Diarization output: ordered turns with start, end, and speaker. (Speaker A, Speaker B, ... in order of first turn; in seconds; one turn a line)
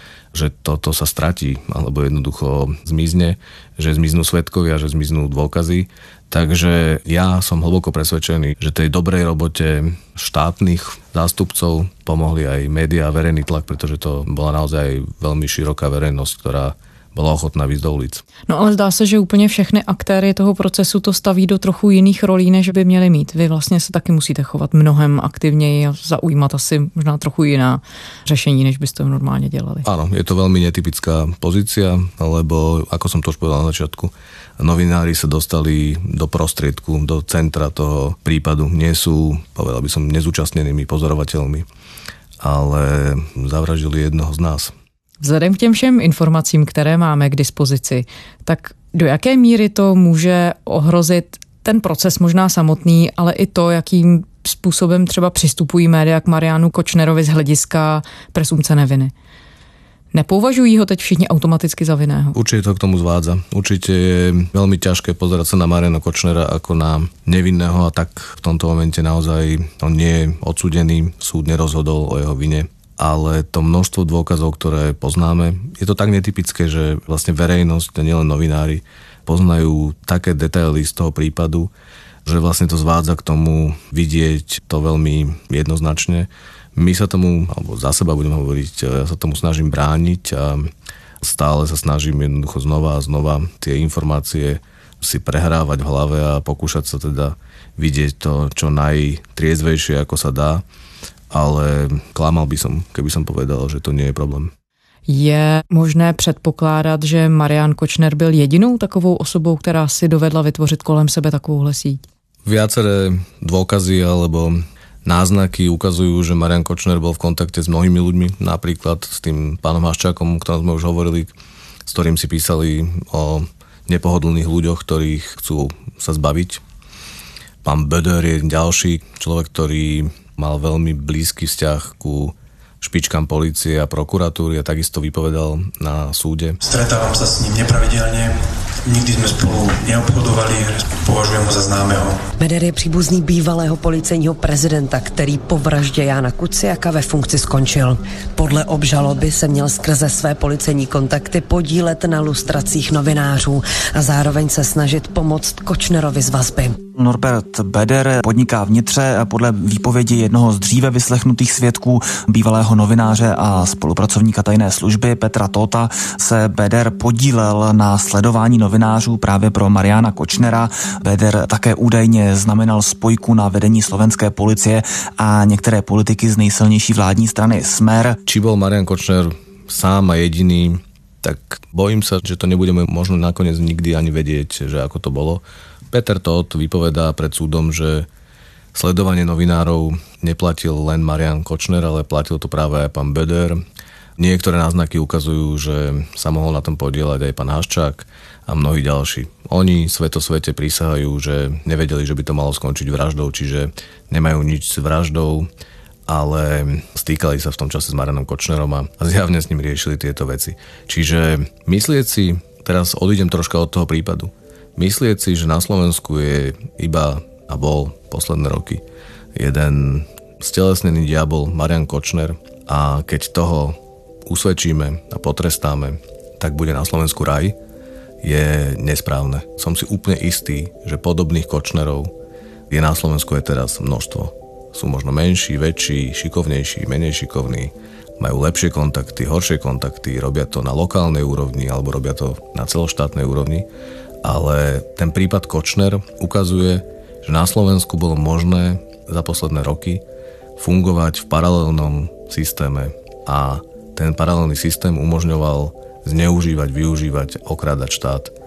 Speaker A: 0.3-18.2
Speaker B: 18.5-29.9
Speaker A: 29.8-41.6
Speaker A: 42.4-44.7
Speaker B: 45.2-59.1
Speaker B: 60.1-62.4
Speaker A: 62.3-81.7
Speaker A: 82.2-100.6
Speaker A: 101.3-104.5
Speaker B: 105.1-112.0
Speaker A: 112.4-121.3
Speaker A: 121.8-126.6
Speaker A: 127.6-136.6
Speaker C: 136.6-142.2
Speaker D: 142.4-156.8
Speaker E: 156.9-178.2
Speaker A: 178.2-188.1
Speaker A: 188.7-193.6
Speaker A: 194.2-205.5
Speaker A: 206.1-218.8
Speaker A: 219.3-227.6
Speaker A: 228.2-232.1
Speaker A: 232.7-243.7
Speaker A: 244.2-250.0
Speaker A: 250.6-258.3